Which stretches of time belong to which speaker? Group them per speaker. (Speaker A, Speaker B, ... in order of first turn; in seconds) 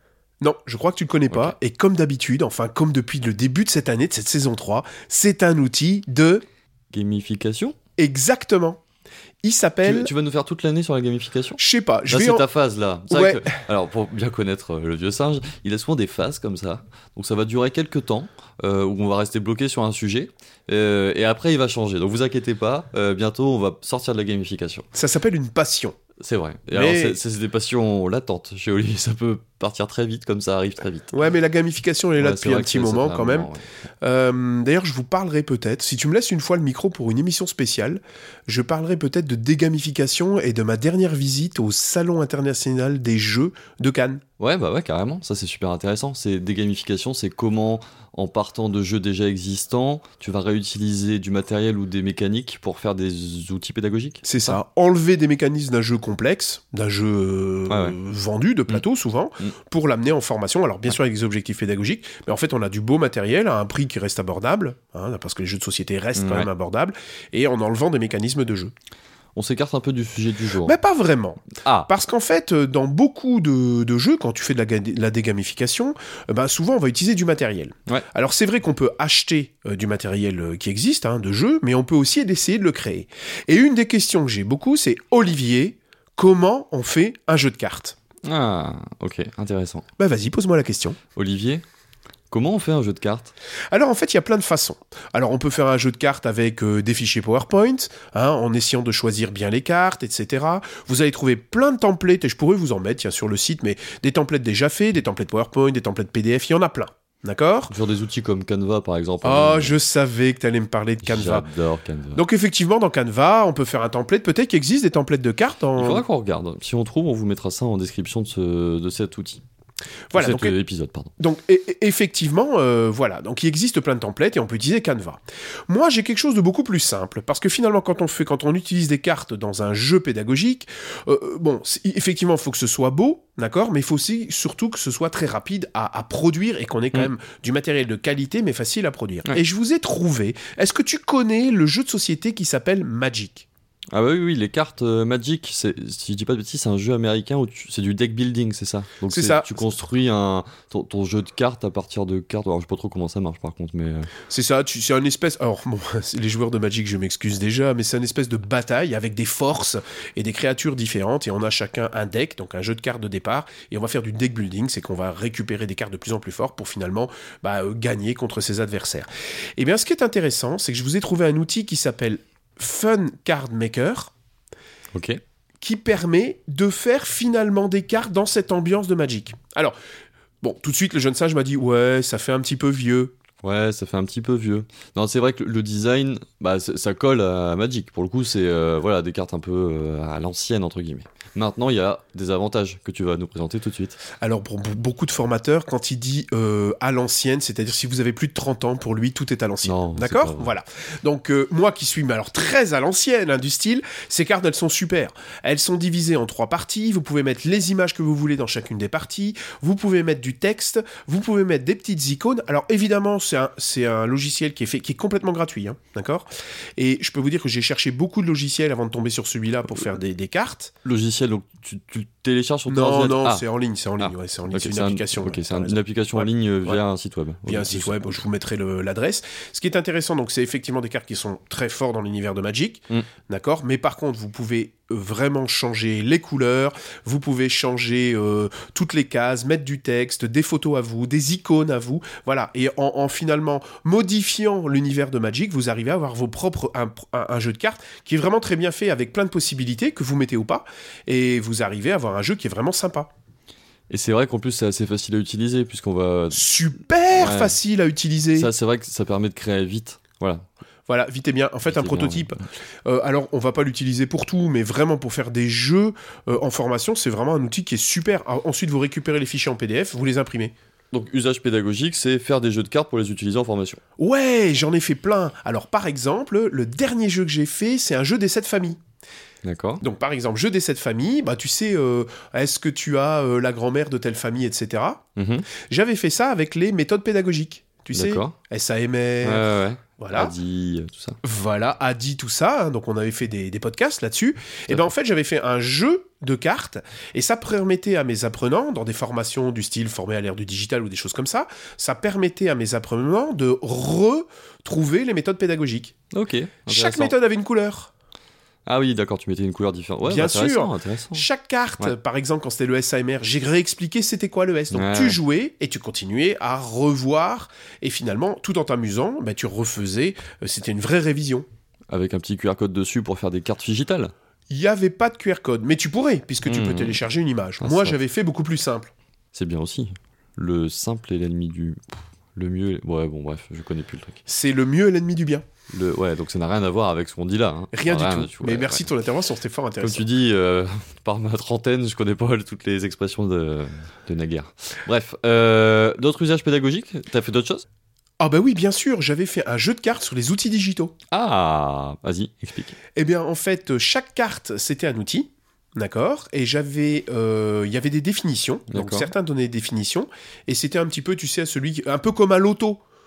Speaker A: 0.4-6.4, 8.0-8.8, 9.4-10.1, 11.6-12.5, 13.1-13.6, 24.9-26.0, 26.7-27.2, 31.1-33.5, 34.0-44.2, 54.2-68.7, 70.6-88.0, 90.0-91.0, 93.7-107.8, 109.2-111.5, 112.2-116.0, 120.1-120.6, 121.2-143.5, 149.1-149.7, 154.2-174.1, 175.6-179.8, 180.4-183.1, 194.1-220.7, 222.7-226.8, 227.4-253.1, 256.3-258.5, 260.9-270.5, 274.0-278.8, 279.8-285.0, 285.5-290.3, 291.2-305.9, 306.7-307.9, 310.1-321.4, 324.5-328.9, 334.3-335.4, 337.7-340.1, 348.2-350.9, 352.9-362.8
Speaker B: 1.3-1.5, 6.9-7.8, 9.8-24.9, 26.2-31.1, 32.2-33.6, 44.4-54.6, 57.7-58.0, 66.2-66.5, 69.3-70.8, 71.5-71.9, 88.2-89.8, 91.2-91.6, 92.3-93.3, 107.7-109.8, 111.0-112.2, 115.8-119.4, 120.1-121.1, 143.9-154.1, 174.9-175.2, 183.4-194.0, 199.6-200.5, 220.8-223.4, 224.0-228.2, 253.9-256.5, 257.1-257.6, 258.4-260.4, 261.7-262.4, 270.9-273.8, 279.4-279.8, 285.2-285.5, 287.9-288.4, 289.2-291.2, 306.1-307.1, 308.7-311.3, 314.7-315.2, 321.9-324.1, 326.4-327.0, 327.6-328.0, 329.3-334.2, 335.7-338.9, 339.8-347.6, 351.1-352.8, 358.7-359.1